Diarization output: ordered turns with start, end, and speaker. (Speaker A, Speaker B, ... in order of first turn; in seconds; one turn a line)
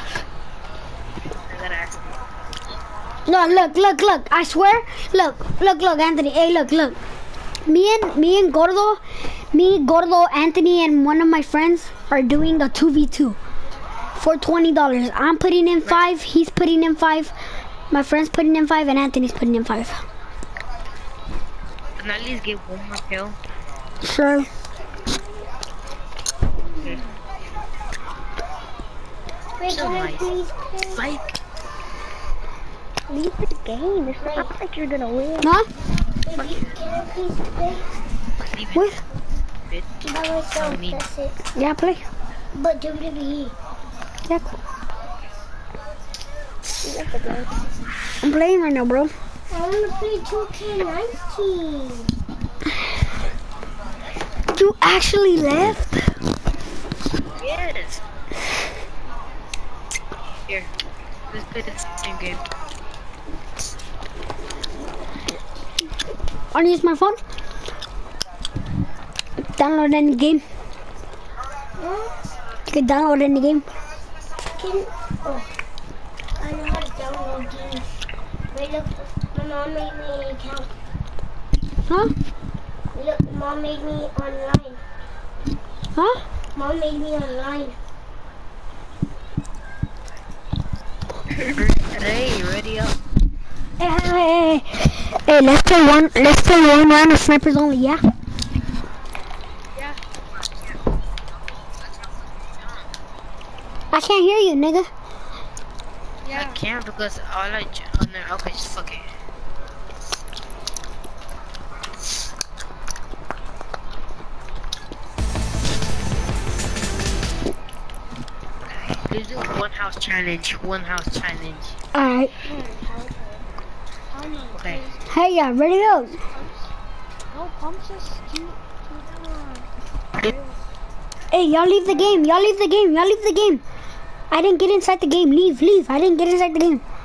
Speaker A: 1.5-2.2
Speaker B: 3.3-7.0
Speaker B: 7.7-9.0
Speaker B: 9.5-13.4
Speaker B: 14.2-17.3
Speaker B: 17.9-20.0
Speaker A: 22.0-23.4
Speaker B: 24.0-24.5
Speaker A: 26.8-27.0
Speaker C: 29.6-31.1
Speaker A: 29.7-30.3
Speaker A: 30.9-31.4
Speaker D: 33.1-35.5
Speaker C: 34.1-34.5
Speaker B: 35.4-35.7
Speaker C: 36.3-37.9
Speaker A: 38.4-39.0
Speaker C: 40.0-41.4
Speaker A: 40.5-41.0
Speaker B: 41.5-42.1
Speaker C: 42.5-43.5
Speaker D: 46.8-47.5
Speaker B: 48.2-49.1
Speaker C: 49.5-52.1
Speaker B: 54.5-56.0
Speaker A: 57.4-58.0
Speaker A: 61.3-62.4
Speaker B: 66.5-67.2
Speaker B: 69.5-70.4
Speaker C: 71.8-72.1
Speaker B: 72.7-73.7
Speaker C: 74.6-75.5
Speaker C: 76.4-78.0
Speaker C: 78.5-80.7
Speaker C: 82.9-84.8
Speaker B: 86.0-86.2
Speaker C: 86.5-87.8
Speaker A: 91.4-93.0
Speaker B: 93.8-98.0
Speaker A: 100.3-100.8
Speaker A: 102.5-102.9
Speaker B: 103.9-104.9
Speaker E: 106.2-106.6
Speaker A: 106.3-109.1
Speaker A: 118.9-121.8
Speaker B: 121.9-122.3
Speaker D: 122.5-123.4
Speaker E: 124.1-125.0
Speaker A: 124.5-124.8
Speaker B: 125.1-126.2
Speaker E: 125.8-126.7
Speaker E: 127.3-129.7
Speaker E: 130.2-130.6
Speaker B: 131.3-133.6
Speaker B: 134.3-136.8